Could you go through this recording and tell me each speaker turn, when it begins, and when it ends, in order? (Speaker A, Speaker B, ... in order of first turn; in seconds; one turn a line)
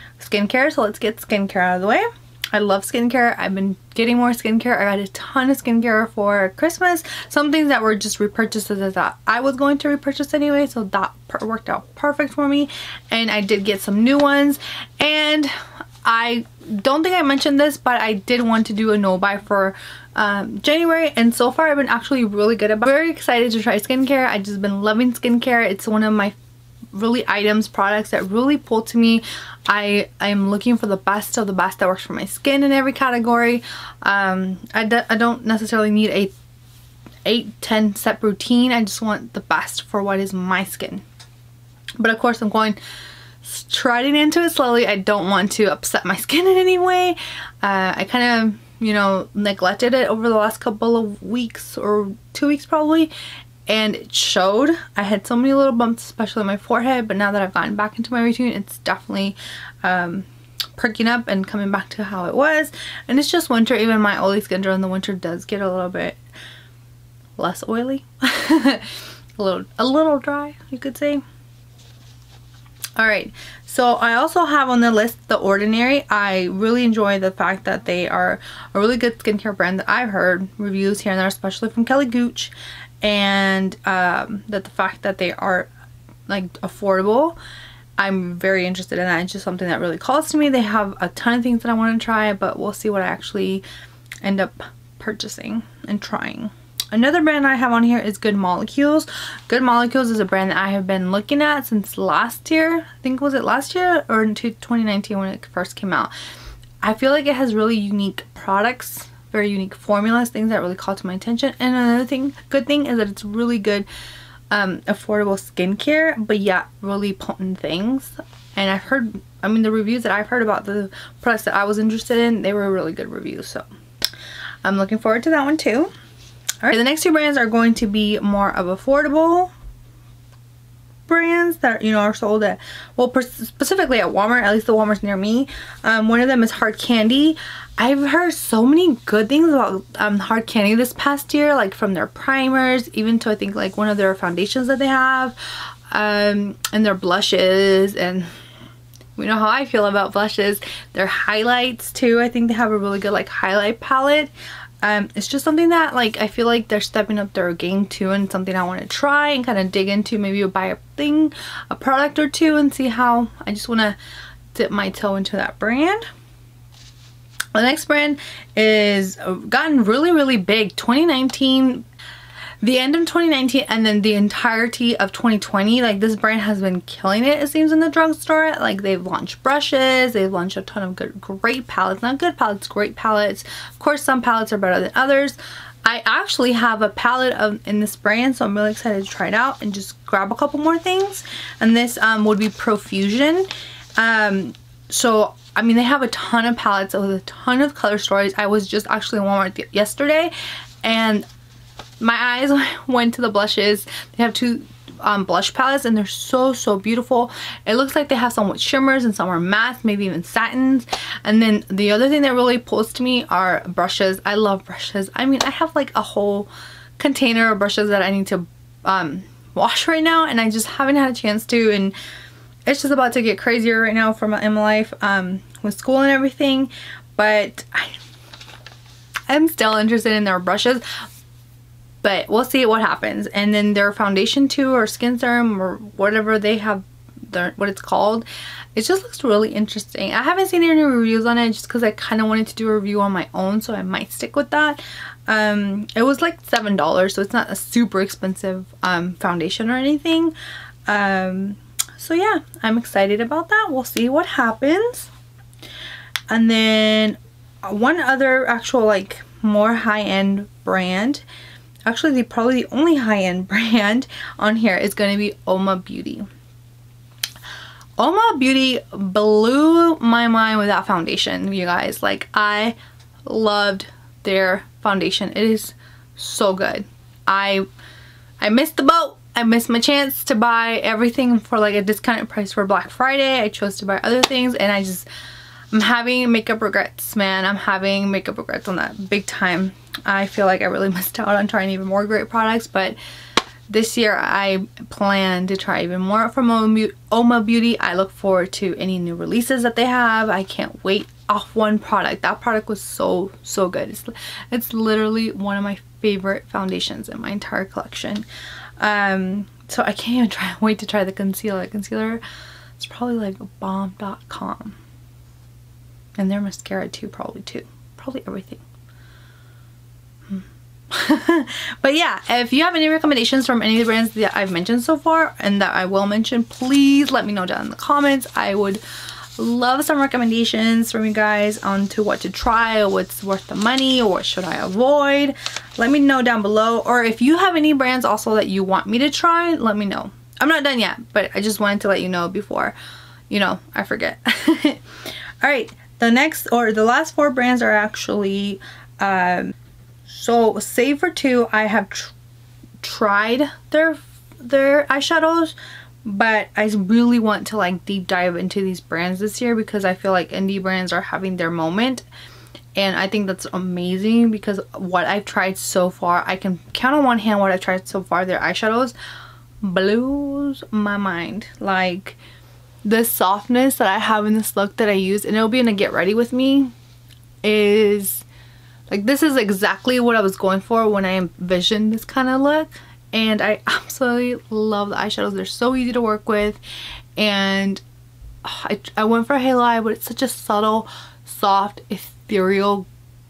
Speaker A: 0.2-26.4
Speaker A: 26.9-36.3
Speaker A: 37.3-41.0
Speaker A: 42.0-42.8
Speaker A: 43.4-53.1
Speaker A: 53.7-66.2
Speaker A: 67.4-71.2
Speaker A: 73.0-85.7
Speaker A: 86.3-87.4
Speaker A: 88.0-93.7
Speaker A: 94.2-106.1
Speaker A: 106.8-113.9
Speaker A: 114.5-123.7
Speaker A: 124.6-125.9
Speaker A: 126.6-129.5
Speaker A: 131.1-145.4
Speaker A: 145.9-148.3
Speaker A: 149.2-164.0
Speaker A: 164.5-166.0
Speaker A: 167.5-171.8
Speaker A: 172.6-201.3
Speaker A: 202.0-222.0
Speaker A: 222.7-228.0
Speaker A: 229.3-230.8
Speaker A: 232.0-250.3
Speaker A: 250.9-255.1
Speaker A: 256.3-261.2
Speaker A: 261.9-266.3
Speaker A: 268.0-277.7
Speaker A: 278.4-285.1
Speaker A: 285.7-293.0
Speaker A: 293.7-308.2
Speaker A: 308.8-312.2
Speaker A: 312.8-314.8
Speaker A: 316.2-318.6
Speaker A: 320.3-328.8
Speaker A: 329.4-342.8
Speaker A: 343.3-344.8
Speaker A: 345.4-349.6
Speaker A: 350.1-352.1
Speaker A: 352.8-362.1
Speaker A: 362.8-368.9
Speaker A: 369.6-372.2
Speaker A: 372.9-376.7
Speaker A: 377.4-378.2
Speaker A: 378.9-386.6
Speaker A: 387.2-387.8
Speaker A: 388.4-392.9